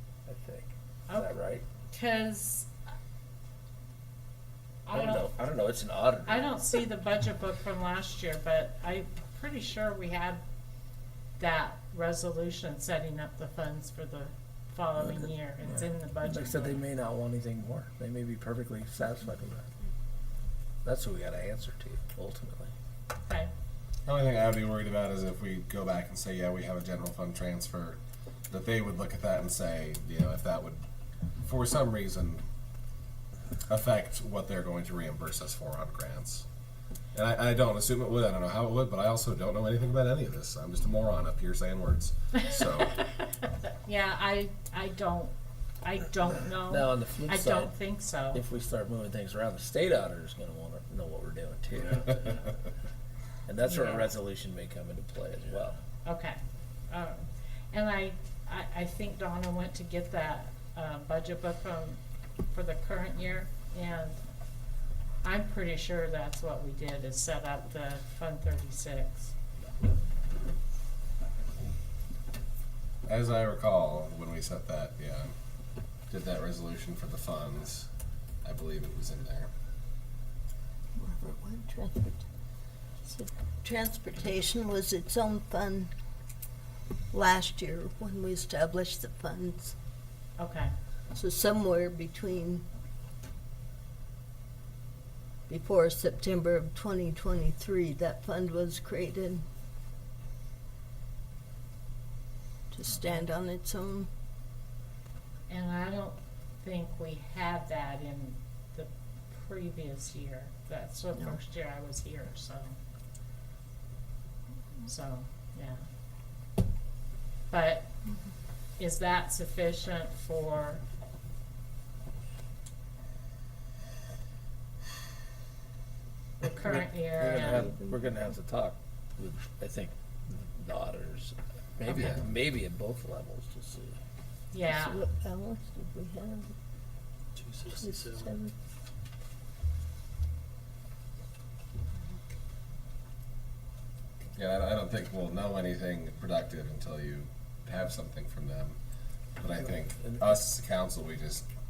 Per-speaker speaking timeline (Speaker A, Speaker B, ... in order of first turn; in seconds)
Speaker A: 0.3-1.6, 4.9-6.5, 16.2-19.7, 20.8-22.7, 46.7-47.7, 48.3-52.5, 53.5-55.8, 126.7-134.0
Speaker B: 1.9-2.7, 4.9-5.3, 6.3-10.4, 11.4-16.8, 43.6-45.3, 45.8-48.4, 53.6-54.1, 56.0-56.4, 56.9-57.2, 57.7-64.2, 65.2-69.3, 90.4-90.7, 105.5-112.8, 114.8-115.8, 117.5-117.9, 118.8-120.8, 126.4-127.7, 134.5-135.0
Speaker C: 24.1-28.0, 28.5-30.8, 31.4-32.4, 33.7-36.5, 37.1-43.0, 73.1-75.3, 76.1-77.9, 78.4-79.5, 144.4-148.8, 149.4-151.4
Speaker D: 81.0-82.2, 83.1-85.9, 87.1-89.8, 91.1-92.6, 95.5-99.4, 102.7-104.1, 127.2-128.0, 134.6-136.5, 137.7-138.5